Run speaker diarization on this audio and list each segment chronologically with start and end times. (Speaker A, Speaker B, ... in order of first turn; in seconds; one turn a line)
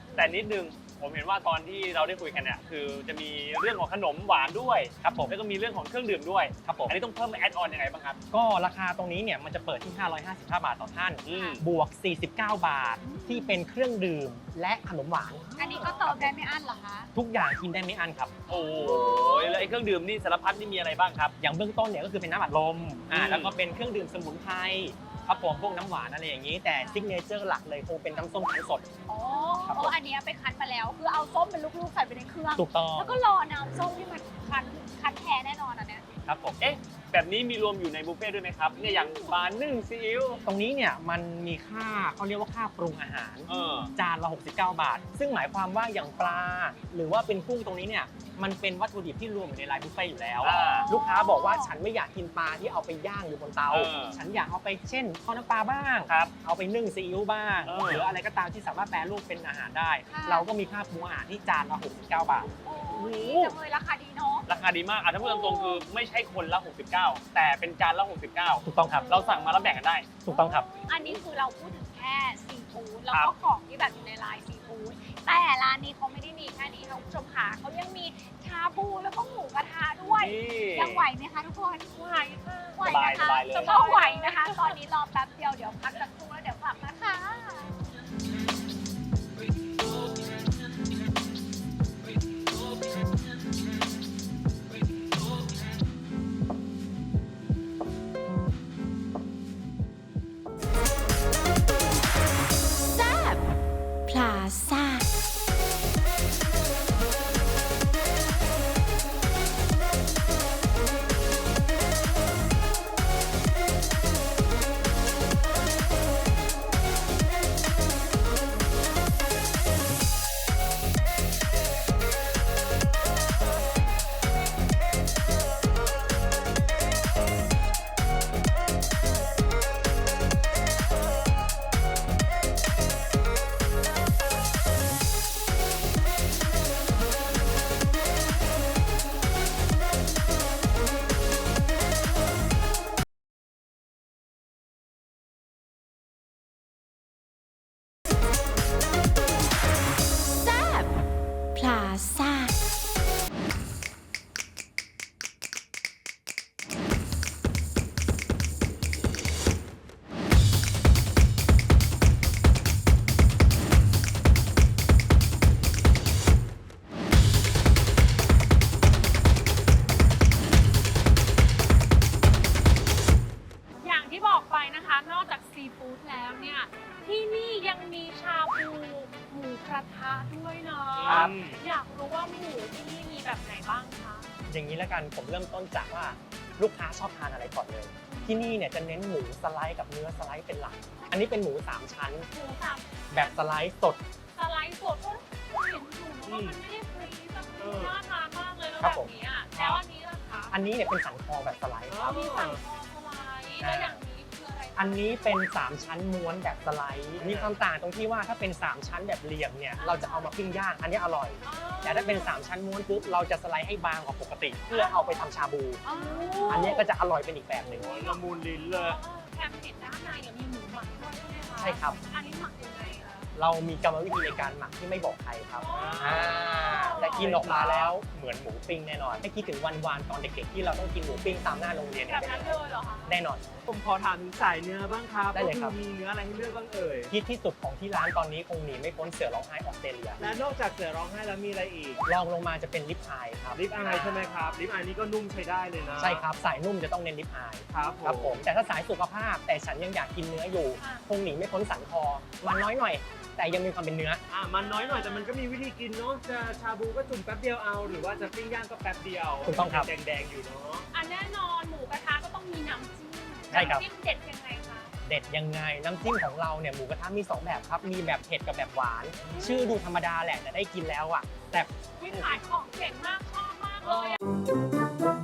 Speaker A: 0.1-8.2
Speaker B: 5.0-5.3
Speaker B: 6.6-7.0
Speaker B: 8.3-16.3
Speaker A: 11.2-11.6
Speaker C: 11.3-11.6
Speaker C: 13.0-13.5
Speaker C: 15.6-17.1
Speaker B: 17.1-18.4
Speaker C: 18.5-19.6
Speaker A: 18.5-21.4
Speaker D: 18.6-19.1
Speaker B: 21.4-28.9
Speaker A: 23.1-23.6
Speaker C: 25.0-25.9
Speaker C: 26.7-27.1
Speaker C: 29.1-36.0
Speaker B: 29.7-30.0
Speaker B: 32.6-33.2
Speaker B: 36.2-36.6
Speaker A: 36.6-40.5
Speaker D: 38.7-39.4
Speaker B: 40.4-62.5
Speaker A: 43.5-43.9
Speaker A: 50.4-50.9
Speaker C: 50.5-51.8
Speaker A: 53.7-54.2
Speaker A: 56.1-56.3
Speaker A: 57.6-58.1
Speaker C: 60.1-60.5
Speaker C: 62.6-64.5
Speaker A: 62.9-63.6
Speaker A: 64.5-70.1
Speaker B: 68.7-69.2
Speaker B: 70.2-70.7
Speaker D: 70.3-71.2
Speaker C: 70.3-81.9
Speaker A: 73.1-73.3
Speaker A: 80.1-81.1
Speaker D: 81.9-82.8
Speaker C: 82.8-87.8
Speaker A: 82.8-83.8
Speaker D: 83.5-84.8
Speaker D: 173.8-184.3
Speaker E: 181.1-181.6
Speaker B: 184.5-192.3
Speaker D: 188.1-188.5
Speaker D: 192.3-193.5
Speaker B: 193.1-194.0
Speaker D: 194.3-200.6
Speaker E: 196.3-196.6
Speaker E: 197.6-198.0
Speaker B: 198.8-199.1
Speaker E: 199.5-199.8
Speaker B: 200.5-202.2
Speaker E: 201.9-202.6
Speaker D: 202.0-205.1
Speaker B: 203.6-204.0
Speaker B: 204.8-215.8
Speaker E: 207.2-207.5
Speaker D: 209.8-210.3
Speaker D: 211.4-212.4
Speaker D: 214.7-215.3
Speaker C: 215.8-216.8
Speaker D: 215.8-216.9
Speaker B: 216.5-217.9
Speaker E: 217.7-219.0
Speaker D: 217.7-223.3
Speaker B: 221.6-222.0
Speaker B: 223.3-233.5
Speaker D: 225.6-227.5
Speaker E: 225.7-227.9
Speaker D: 232.1-233.2
Speaker E: 233.6-237.1
Speaker B: 235.3-235.8
Speaker B: 237.1-240.2
Speaker E: 240.2-242.0
Speaker B: 242.1-243.7
Speaker E: 243.6-246.2
Speaker D: 243.9-244.4
Speaker B: 246.0-254.2
Speaker E: 247.7-248.4
Speaker D: 250.8-251.1
Speaker E: 254.3-260.9
Speaker D: 254.6-255.3
Speaker B: 259.5-259.9
Speaker D: 260.9-264.9
Speaker E: 263.5-263.8
Speaker B: 263.5-263.9
Speaker B: 265.0-272.4
Speaker D: 269.4-269.7
Speaker D: 272.0-274.2
Speaker E: 273.8-274.2